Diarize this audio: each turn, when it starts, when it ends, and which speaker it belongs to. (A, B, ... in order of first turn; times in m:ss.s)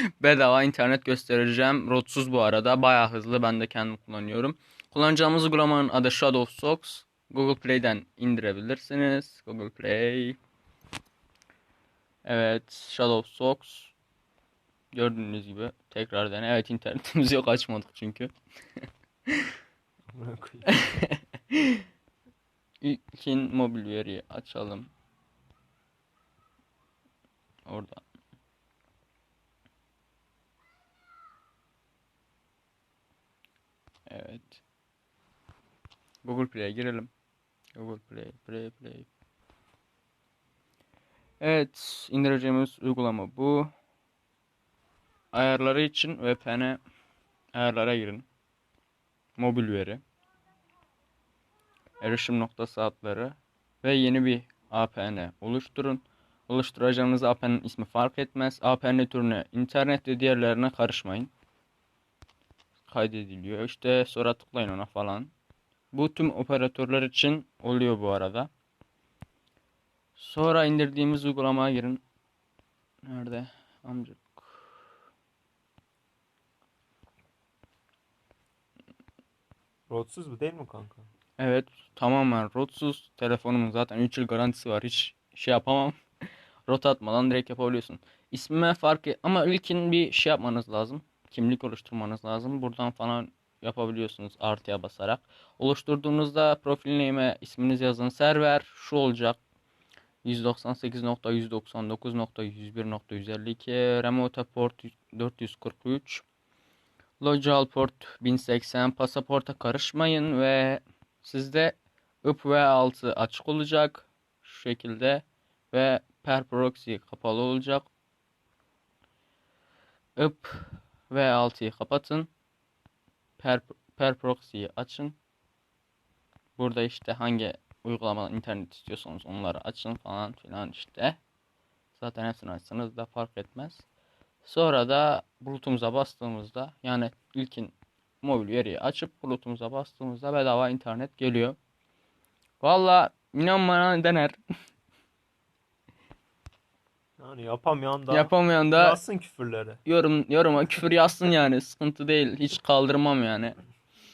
0:00.2-0:10.4 A
0:12.2-0:13.9 A
0:14.9-0:18.3 A
0:20.1-0:21.0 B
0:20.7-0:21.8 A
0:22.8-0:24.9 A
0:27.7-0:28.0 A
0:34.1-0:34.6 A
0:36.2-0:37.1 A
0:37.8-0:39.1 A
0:41.4-0:43.7 A
0:45.3-0:46.8 A
0:47.5-0:48.2 A
0:49.4-0:50.0 A
0:52.0-1:01.3 A
1:02.9-1:05.3 A
1:05.9-1:08.5 A
1:10.2-1:12.0 A
1:13.0-1:14.4 A
1:19.9-1:21.0 B
1:21.4-1:26.0 A
1:26.7-1:39.4 A
1:40.2-1:46.2 A
1:47.2-1:57.9 A
2:00.2-2:02.3 A
2:03.4-2:05.2 A
2:06.6-2:11.2 A
2:11.9-2:13.8 A
2:14.4-2:21.6 A
2:22.6-2:24.4 A
2:27.2-2:29.8 B
2:28.1-2:29.0 A
2:29.8-2:33.6 A